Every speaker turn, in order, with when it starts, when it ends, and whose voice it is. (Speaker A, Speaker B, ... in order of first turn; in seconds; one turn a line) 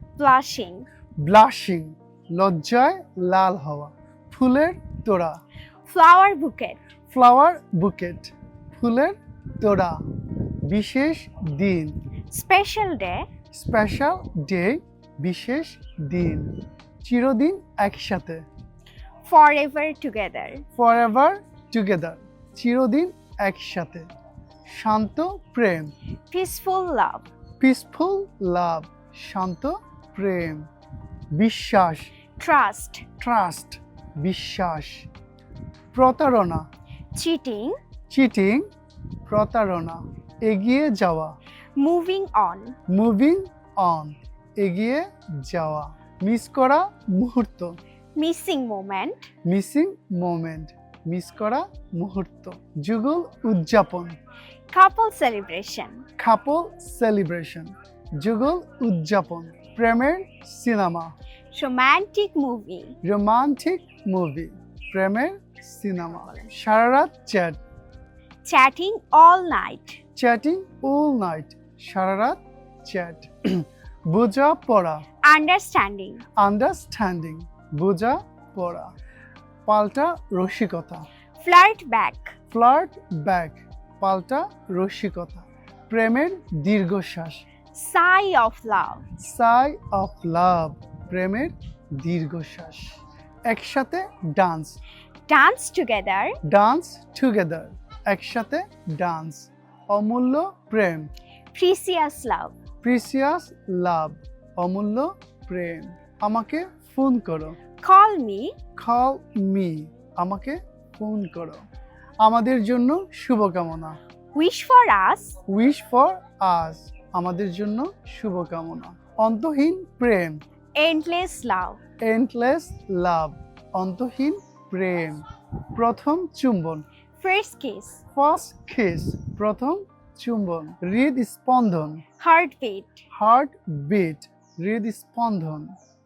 Speaker A: 0.1-0.9
Speaker B: 1.2-5.4
Speaker A: 5.9-6.8
Speaker B: 7.1-10.0
Speaker B: 10.6-12.0
Speaker A: 12.3-13.2
Speaker B: 13.5-18.4
Speaker A: 19.2-20.6
Speaker B: 20.8-24.1
Speaker B: 24.7-25.9
Speaker A: 26.3-27.3
Speaker B: 27.6-30.7
Speaker B: 31.3-32.1
Speaker A: 32.4-33.0
Speaker B: 33.2-35.1
Speaker B: 35.9-36.6
Speaker A: 37.1-37.8
Speaker B: 38.1-38.7
Speaker B: 39.3-41.3
Speaker A: 41.8-42.8
Speaker B: 42.9-47.8
Speaker A: 48.1-49.3
Speaker B: 49.5-54.1
Speaker A: 54.7-56.0
Speaker B: 56.2-61.1
Speaker A: 61.5-63.0
Speaker B: 63.0-67.6
Speaker A: 68.4-70.0
Speaker B: 70.2-75.0
Speaker A: 75.2-76.2
Speaker B: 76.3-78.9
Speaker B: 79.7-81.0
Speaker A: 81.4-82.3
Speaker B: 82.5-87.4
Speaker A: 87.7-89.0
Speaker B: 89.2-92.9
Speaker B: 93.5-94.8
Speaker A: 95.3-96.4
Speaker B: 96.4-101.1
Speaker A: 101.5-102.5
Speaker B: 102.8-107.6
Speaker A: 107.8-108.5
Speaker B: 108.8-111.6
Speaker B: 112.2-114.0
Speaker A: 114.3-115.4
Speaker B: 115.5-120.4
Speaker A: 120.7-121.8
Speaker B: 122.0-126.8
Speaker A: 127.2-128.0
Speaker B: 128.1-132.0
Speaker A: 132.2-133.0
Speaker B: 133.1-135.7